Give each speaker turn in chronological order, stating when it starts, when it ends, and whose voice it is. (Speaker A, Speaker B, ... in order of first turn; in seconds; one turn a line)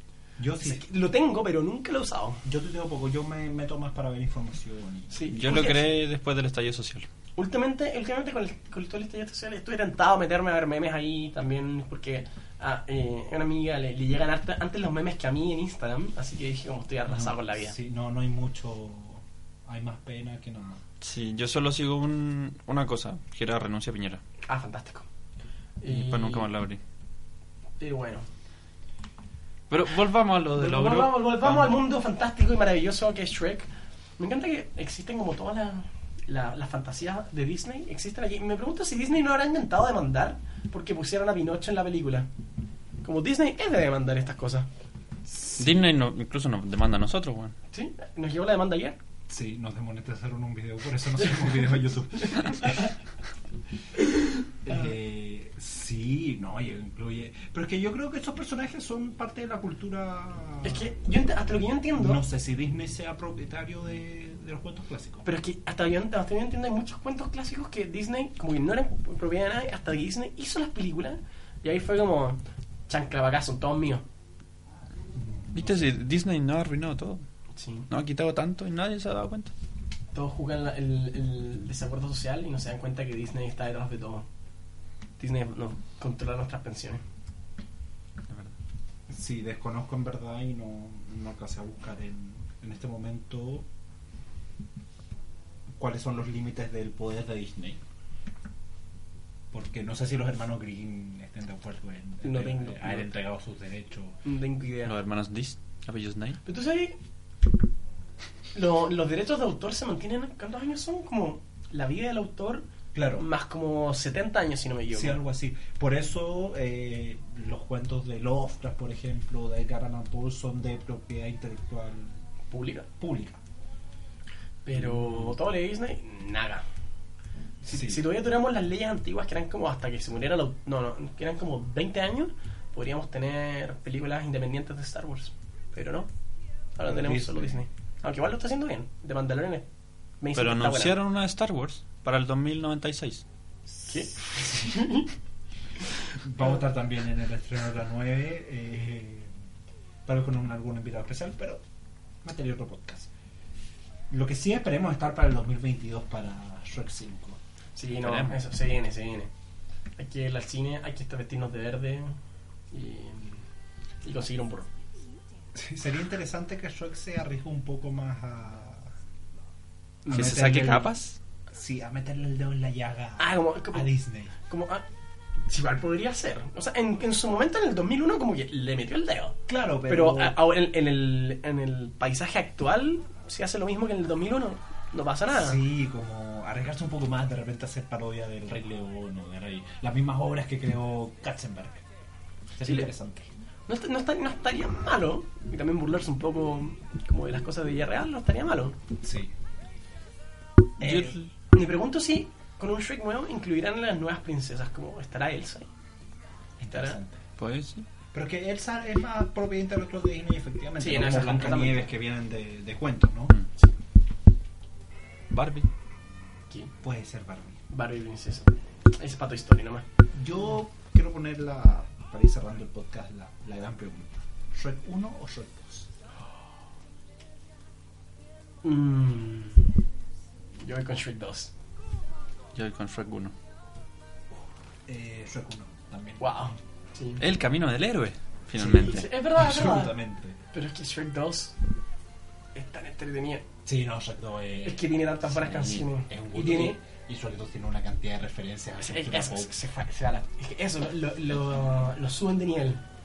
Speaker A: 0.4-0.8
Speaker B: 0.6-2.4
Speaker A: 2.5-5.8
Speaker B: 5.1-6.0
Speaker C: 5.3-7.1
Speaker B: 7.4-17.8
Speaker A: 17.1-20.8
Speaker C: 21.0-24.2
Speaker B: 24.5-25.1
Speaker B: 25.8-26.5
Speaker C: 25.9-26.8
Speaker B: 27.8-28.3
Speaker C: 29.7-31.8
Speaker B: 30.6-33.7
Speaker B: 34.2-42.3
Speaker B: 43.0-44.7
Speaker A: 45.3-45.9
Speaker C: 45.6-47.5
Speaker B: 47.7-49.0
Speaker A: 49.3-52.9
Speaker B: 52.3-52.9
Speaker A: 54.6-60.9
Speaker B: 60.6-62.2
Speaker A: 62.0-65.3
Speaker B: 65.2-74.0
Speaker A: 75.2-75.9
Speaker C: 75.5-77.2
Speaker B: 77.6-77.9
Speaker C: 77.9-79.5
Speaker B: 80.1-84.3
Speaker B: 85.2-87.0
Speaker A: 89.1-93.7
Speaker A: 95.8-97.8
Speaker A: 99.5-104.2
Speaker B: 102.2-103.1
Speaker B: 104.2-105.0
Speaker C: 104.8-106.4
Speaker B: 106.5-107.0
Speaker B: 108.5-115.2
Speaker A: 112.9-113.3
Speaker A: 114.9-122.2
Speaker B: 122.5-122.9
Speaker A: 122.9-123.4
Speaker B: 124.7-126.7
Speaker A: 127.6-128.1
Speaker B: 127.7-136.1
Speaker B: 136.8-139.7
Speaker A: 136.8-137.6
Speaker B: 140.2-141.0
Speaker C: 140.3-143.2
Speaker B: 143.9-145.1
Speaker A: 144.2-144.8
Speaker A: 146.2-149.3
Speaker A: 150.1-151.6
Speaker A: 152.2-153.1
Speaker A: 154.1-157.4
Speaker B: 157.8-159.3
Speaker C: 158.0-158.4
Speaker B: 160.0-162.2
Speaker B: 162.7-163.4
Speaker B: 164.0-164.7
Speaker A: 165.5-168.9
Speaker B: 170.1-170.8
Speaker A: 170.1-170.9
Speaker C: 170.1-171.2
Speaker A: 171.5-174.3
Speaker B: 173.2-174.8
Speaker B: 175.5-185.6
Speaker A: 179.5-180.4
Speaker A: 185.3-191.8
Speaker A: 192.6-193.3
Speaker B: 192.6-192.9
Speaker B: 193.7-198.8
Speaker A: 199.0-199.3
Speaker C: 200.8-201.3
Speaker B: 200.8-205.7
Speaker B: 206.6-207.0
Speaker A: 206.6-207.2
Speaker C: 207.4-207.9
Speaker A: 208.1-213.3
Speaker B: 210.8-211.9
Speaker C: 215.3-215.7
Speaker A: 216.8-217.6
Speaker B: 217.7-219.9
Speaker A: 220.1-225.9
Speaker B: 228.6-229.7
Speaker B: 230.6-231.5
Speaker C: 232.6-233.3
Speaker A: 234.9-236.5
Speaker B: 236.2-237.2
Speaker C: 237.2-239.1
Speaker A: 238.6-240.4
Speaker B: 238.7-240.0
Speaker B: 240.5-241.6
Speaker B: 242.5-243.4
Speaker A: 243.7-249.5
Speaker B: 244.6-246.8
Speaker B: 248.8-252.8